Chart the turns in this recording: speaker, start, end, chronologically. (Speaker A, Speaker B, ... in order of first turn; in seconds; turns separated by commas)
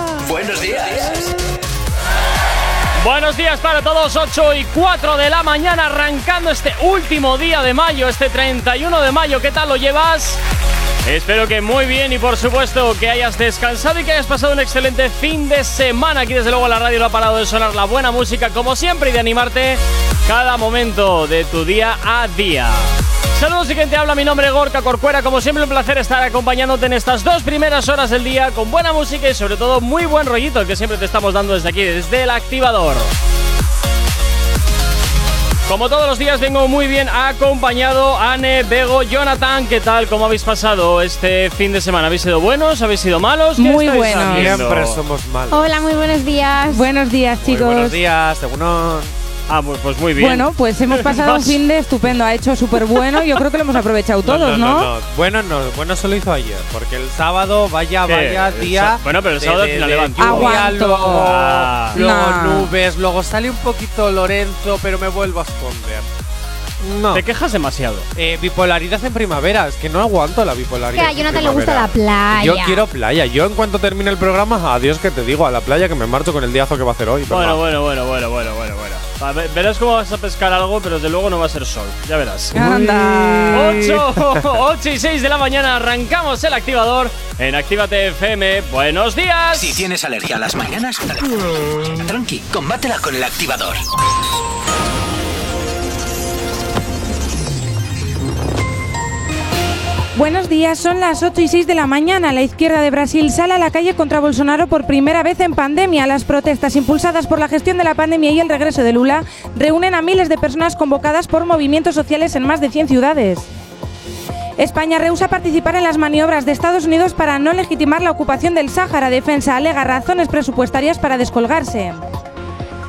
Speaker A: 0.1-1.3, Speaker B: 3.0-10.4, Speaker B: 11.0-33.1, Speaker B: 35.7-45.0, Speaker C: 43.6-44.5, Speaker D: 44.2-45.7, Speaker E: 45.5-46.8, Speaker C: 46.7-48.0, Speaker D: 47.4-49.1, Speaker B: 49.5-51.6, Speaker C: 50.2-54.9, Speaker D: 54.2-66.1, Speaker B: 58.1-61.9, Speaker C: 60.2-61.3, Speaker C: 61.9-62.7, Speaker D: 66.8-67.2, Speaker B: 67.1-68.1, Speaker D: 68.1-77.6, Speaker E: 70.9-72.8, Speaker B: 77.3-82.5, Speaker C: 82.5-83.9, Speaker D: 82.5-84.0, Speaker B: 83.5-89.8, Speaker A: 89.5-93.8, Speaker C: 100.1-113.5, Speaker C: 114.6-122.0